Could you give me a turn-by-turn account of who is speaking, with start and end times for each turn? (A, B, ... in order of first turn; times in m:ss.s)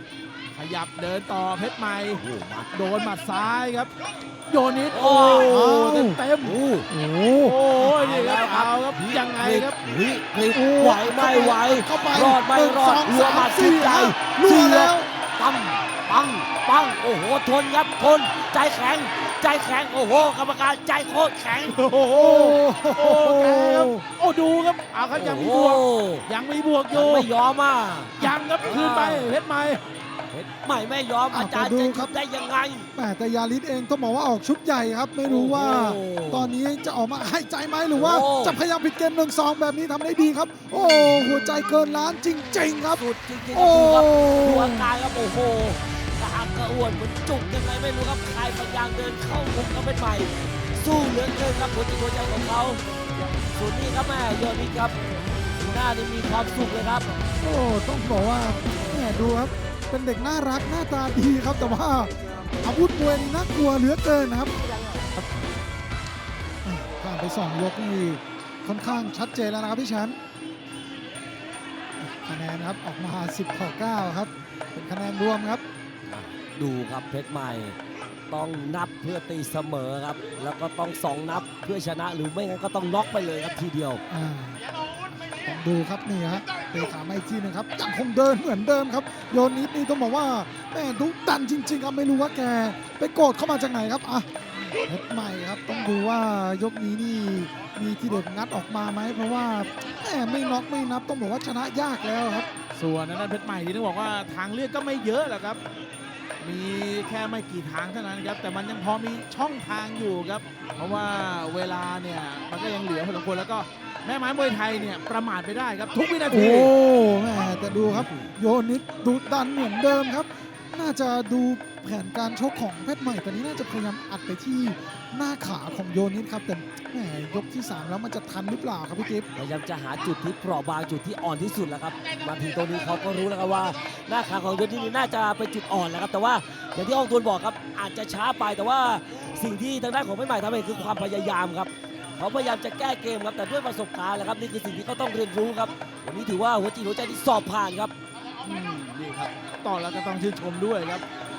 0:00.5-0:03.9 A
0:02.2-0:02.7 B
0:04.5-0:06.6 A
0:04.9-0:05.5 B
0:05.4-0:06.2 C
0:06.4-0:06.9 B
0:06.9-0:07.6 C
0:07.4-0:09.8 A
0:07.8-0:21.8 B
0:10.5-0:15.1 C
0:21.6-0:27.3 A
0:22.1-0:24.0 C
0:25.1-0:26.2 B
0:26.9-0:29.3 B
0:28.2-0:29.8 A
0:30.3-0:32.9 B
0:31.3-0:32.2 C
0:33.0-0:44.9 C
0:35.2-0:36.6 B
0:37.9-0:38.6 B
0:42.9-0:52.8 B
0:53.5-0:55.0 B
0:55.6-0:57.1 B
0:57.4-1:04.5 C
1:06.6-1:10.2 C
1:12.0-1:15.6 C
1:16.1-1:17.8 B
1:18.3-1:24.0 B
1:24.1-1:24.6 C
1:25.3-1:42.5 C
1:42.7-1:45.6 A
1:46.4-1:56.7 A
1:56.3-2:09.3 C
1:57.4-1:58.3 B
2:09.4-2:27.9 B
2:28.4-2:31.0 A